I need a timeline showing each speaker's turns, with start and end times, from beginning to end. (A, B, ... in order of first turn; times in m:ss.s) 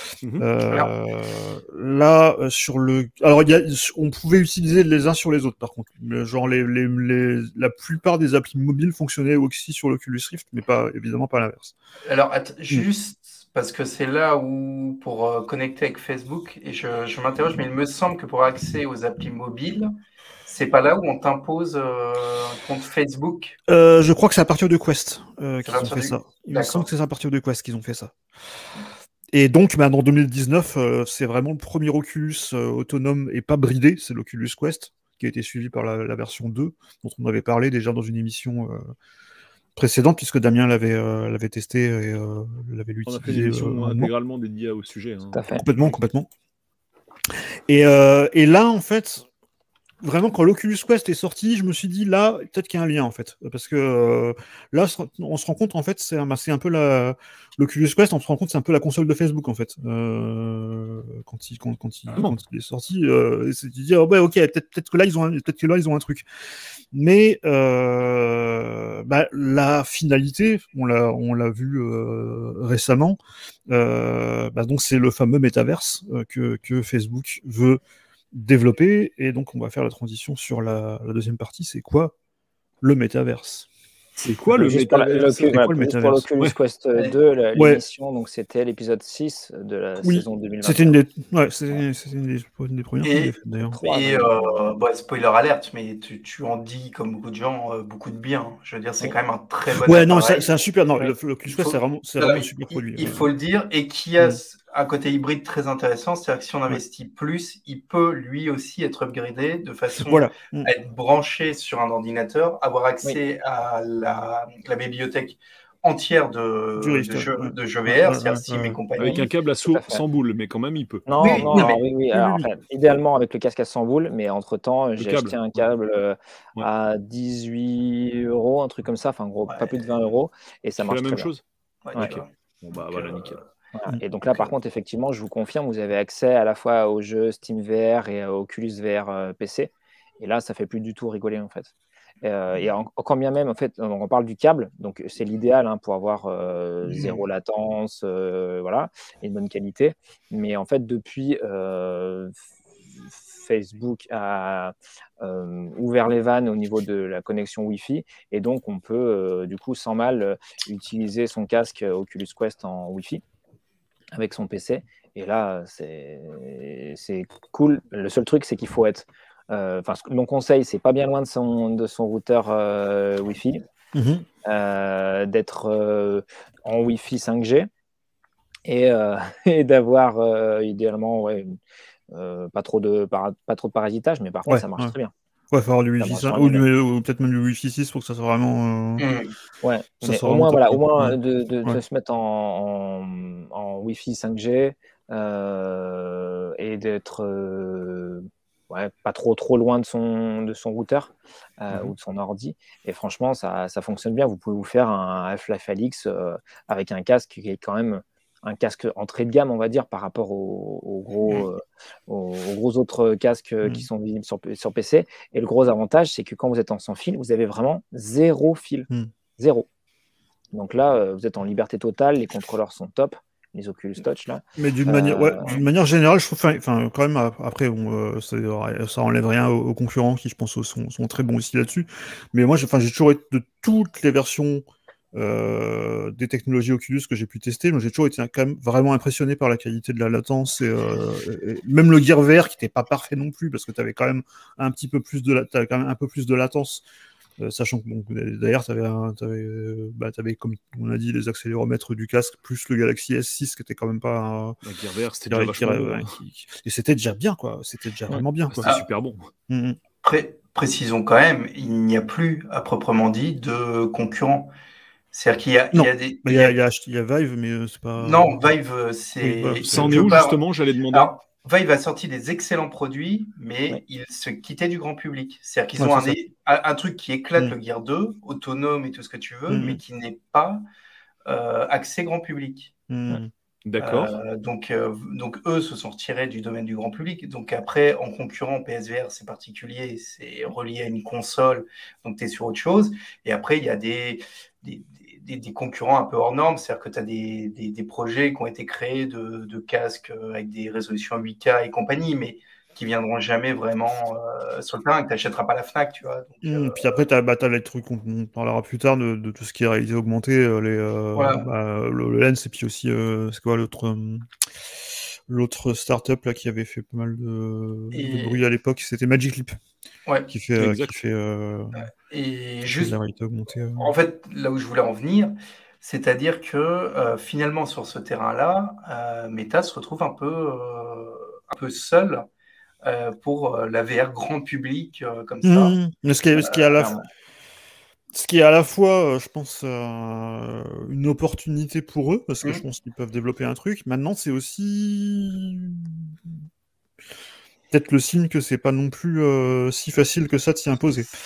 0:00.4-0:11.7 A
0:12.0-0:19.9 B
0:20.4-0:23.6 B
0:23.7-0:28.1 A
0:25.6-0:26.9 B
0:29.3-0:38.9 A
0:39.8-0:44.1 A
0:43.0-0:45.4 C
0:45.3-0:45.6 D
0:45.5-0:46.3 A
0:47.3-0:49.2 A
0:50.0-1:06.2 A
1:06.9-1:17.8 A
1:18.3-1:22.1 A
1:22.8-1:23.7 A
1:24.2-1:25.6 C
1:24.5-1:31.0 D
1:25.5-1:26.3 A
1:27.5-1:27.8 A
1:30.0-1:33.8 A
1:33.0-1:40.5 B
1:33.7-1:34.4 D
1:39.7-1:43.3 A
1:41.0-1:59.3 B
1:49.9-1:50.7 A
1:56.8-1:58.8 A
1:59.0-2:02.4 C
1:59.7-2:00.0 D
2:01.0-2:11.3 D
2:01.2-2:01.8 B
2:05.0-2:05.6 C
2:09.5-2:10.1 B
2:10.8-2:11.4 C
2:11.8-2:12.3 B
2:11.9-2:13.4 C
2:12.9-2:13.4 B
2:13.7-2:32.4 D
2:26.8-2:27.2 B
2:33.0-2:43.2 D
2:44.1-2:53.6 D
2:53.9-2:54.2 A
2:54.4-2:57.7 D
2:58.6-3:01.6 D
3:02.1-3:05.1 D
3:04.5-3:04.9 A
3:05.5-3:09.1 A
3:06.0-3:06.6 D
3:09.0-3:09.3 B
3:09.6-3:39.7 D
3:10.0-3:11.8 A
3:40.5-3:45.5 D
3:44.6-4:06.8 A
4:07.4-4:14.6 A
4:14.6-4:16.2 C
4:15.3-4:18.7 A
4:18.5-4:19.3 C
4:19.5-4:19.8 A
4:20.0-4:24.5 B
4:25.1-4:26.5 B
4:25.7-4:28.5 A
4:28.0-4:40.6 B
4:29.2-4:30.2 A
4:29.6-4:31.1 C
4:35.8-4:36.2 A
4:39.5-4:39.8 A
4:41.2-4:42.7 B
4:42.9-4:43.3 A
4:43.7-4:44.1 C
4:43.8-5:07.0 B
5:06.4-5:14.3 A
5:11.1-5:11.4 B
5:15.3-5:19.6 A
5:17.9-5:18.4 B
5:20.3-5:21.8 A
5:20.6-5:21.0 C
5:21.7-5:22.9 B
5:22.6-5:23.9 A
5:23.8-5:32.2 B
5:32.8-5:35.8 B
5:35.4-5:36.9 A
5:36.3-5:37.0 B
5:38.1-5:46.4 A
5:47.7-5:51.1 A